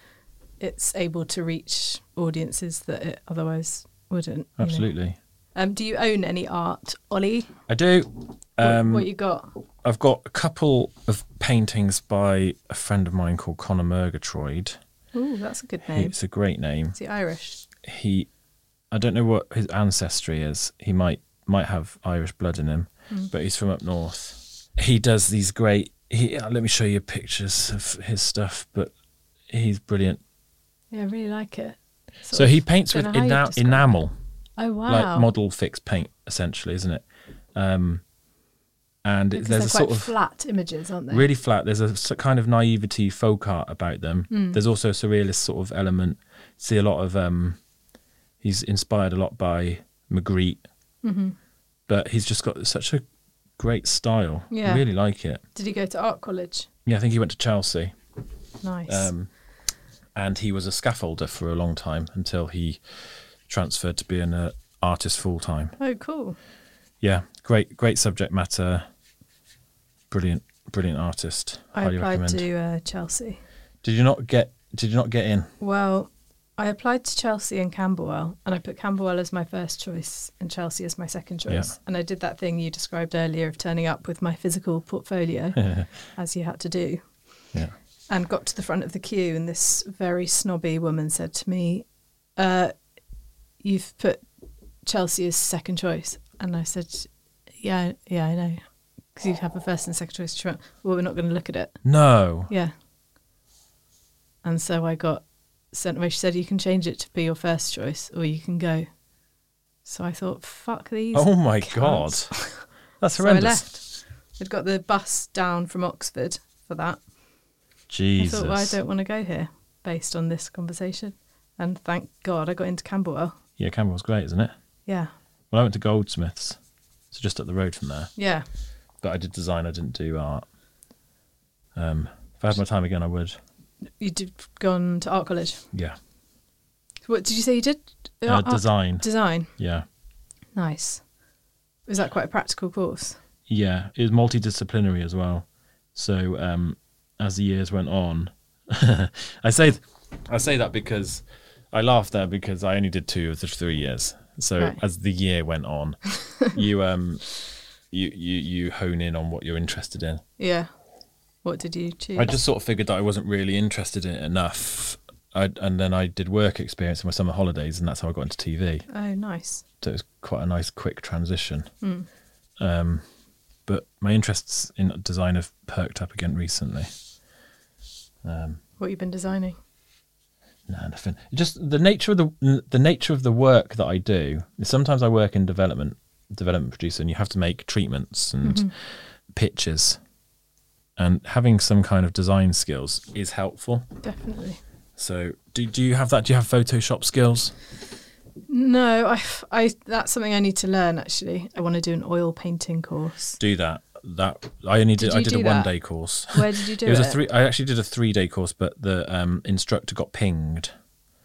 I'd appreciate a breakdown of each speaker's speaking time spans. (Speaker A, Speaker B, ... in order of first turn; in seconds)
Speaker A: 0.6-4.9, 5.5-7.5, 8.6-9.5, 15.1-16.1, 16.9-17.6, 30.9-33.9, 34.6-35.3, 39.3-41.3, 44.3-44.6, 51.0-51.3, 54.5-54.8, 55.5-56.7, 58.6-59.1, 65.8-66.4, 71.7-73.4, 75.6-87.0, 88.1-91.8, 92.4-92.7, 93.6-94.2, 94.8-97.1, 97.6-98.6, 99.1-101.8, 102.5-102.7, 104.4-108.9, 109.8-112.6, 113.2-117.0, 118.2-123.3, 124.8-125.1, 128.2-128.4, 134.0-135.6, 137.1-139.5, 140.5-141.0, 141.9-143.2, 160.4-160.7, 161.4-162.3, 168.9-169.6, 171.8-172.1, 178.8-179.6, 188.4-188.7, 194.0-194.6, 198.5-203.4, 205.0-205.7, 206.3-207.2
Speaker B: 4.6-5.2, 7.7-9.1, 9.8-14.8, 15.9-17.0, 17.8-18.3, 18.9-28.9, 29.5-30.2, 32.3-34.1, 34.9-38.0, 39.0-40.1, 41.1-47.6, 48.4-50.6, 51.9-53.0, 53.6-55.4, 56.9-57.9, 58.9-59.3, 60.1-62.8, 63.5-65.8, 67.0-68.8, 70.1-72.4, 73.8-75.5, 81.5-81.7, 85.6-85.9, 101.8-102.5, 111.1-112.5, 113.0-113.7, 117.9-118.8, 123.6-124.5, 125.5-126.6, 127.1-128.1, 129.0-130.4, 131.7-133.4, 138.2-139.8, 143.5-157.2, 157.9-160.2, 162.1-168.8, 169.8-171.7, 172.6-173.0, 173.7-176.9, 178.2-178.6, 180.7-188.7, 189.3-190.0, 191.0-193.8, 195.0-197.5, 203.4-210.7